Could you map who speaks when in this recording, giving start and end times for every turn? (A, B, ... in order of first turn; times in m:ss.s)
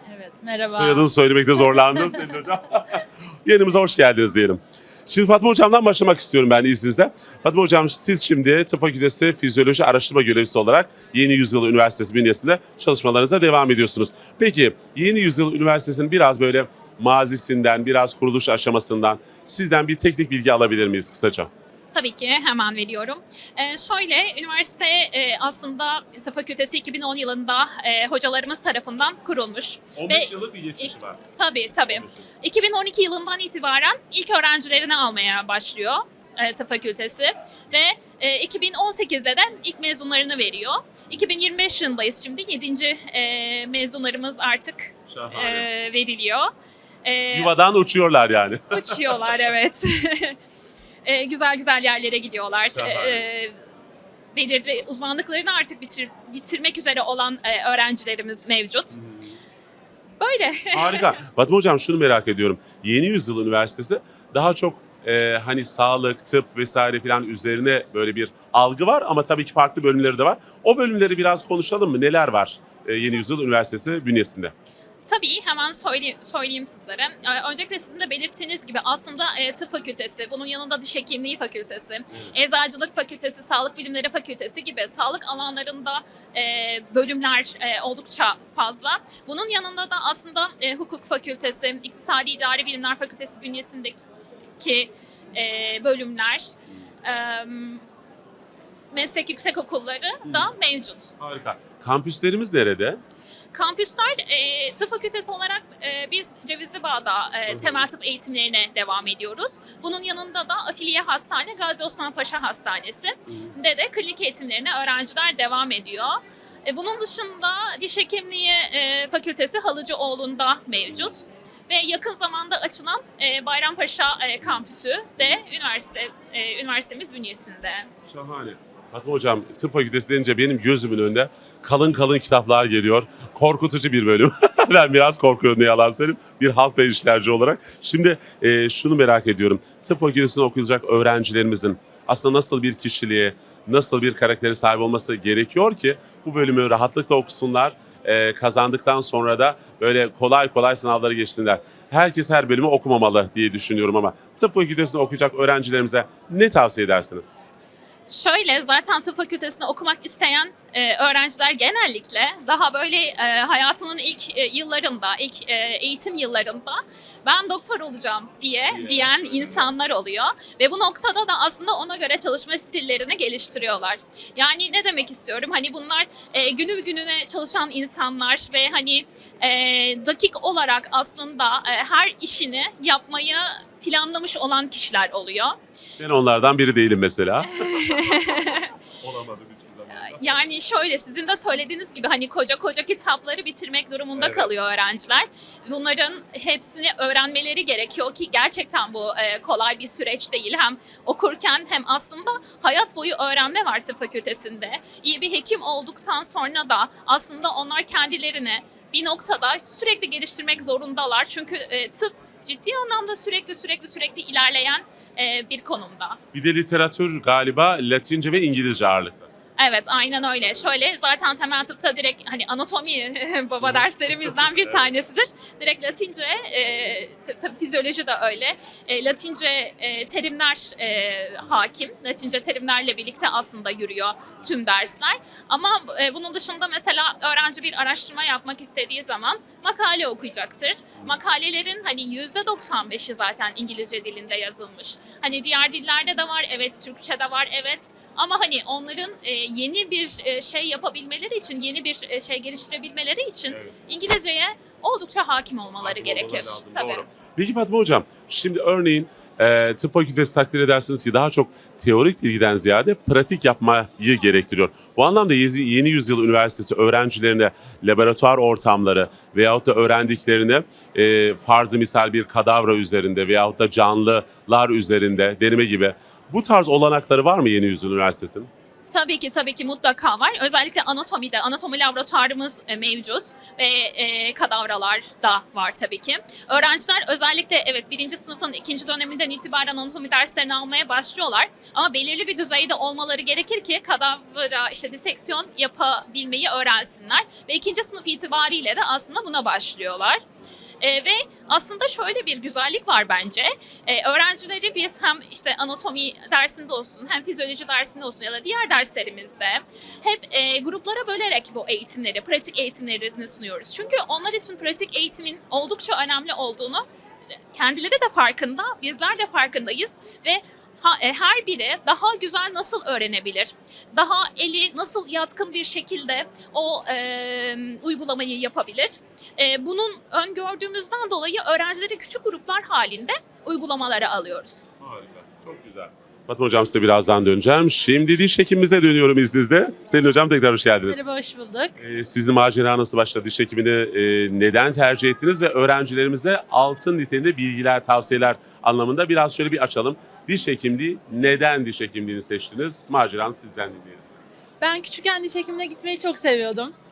0:00.2-0:01.1 A
0:00.7-0:21.5 B
0:21.9-0:46.5 C
0:30.0-0:31.2 B
0:31.9-0:32.3 B
0:45.1-0:45.7 B
0:47.0-0:47.5 C
0:47.3-0:49.1 B
0:48.7-0:50.4 C
0:51.0-0:53.5 C
0:52.7-0:53.2 B
0:54.3-0:59.0 C
0:59.0-0:59.3 B
1:00.2-1:01.2 C
1:00.7-1:14.5 B
1:15.0-1:34.0 C
1:34.6-1:36.5 C
1:37.0-1:37.8 C
1:38.9-1:41.2 C
1:40.2-1:40.5 B
1:41.2-1:43.0 B
1:43.5-2:07.9 C
1:47.5-1:47.9 B
1:53.3-1:53.5 B
2:00.9-2:01.2 B
2:08.1-2:37.3 B
2:38.1-3:05.6 C
2:48.7-2:49.7 B
3:06.0-3:07.7 B
3:07.5-3:08.7 C
3:08.3-3:10.4 B
3:09.9-3:36.2 C
3:14.2-3:14.5 B
3:36.3-3:39.3 B
3:39.6-4:17.1 C
4:13.5-4:13.7 B
4:15.8-4:38.5 B
4:38.9-5:00.2 C
5:00.8-5:16.8 C
5:17.5-5:34.6 C
5:34.8-5:41.0 B
5:40.9-5:41.8 A
5:41.8-5:54.0 B
5:54.6-5:56.7 A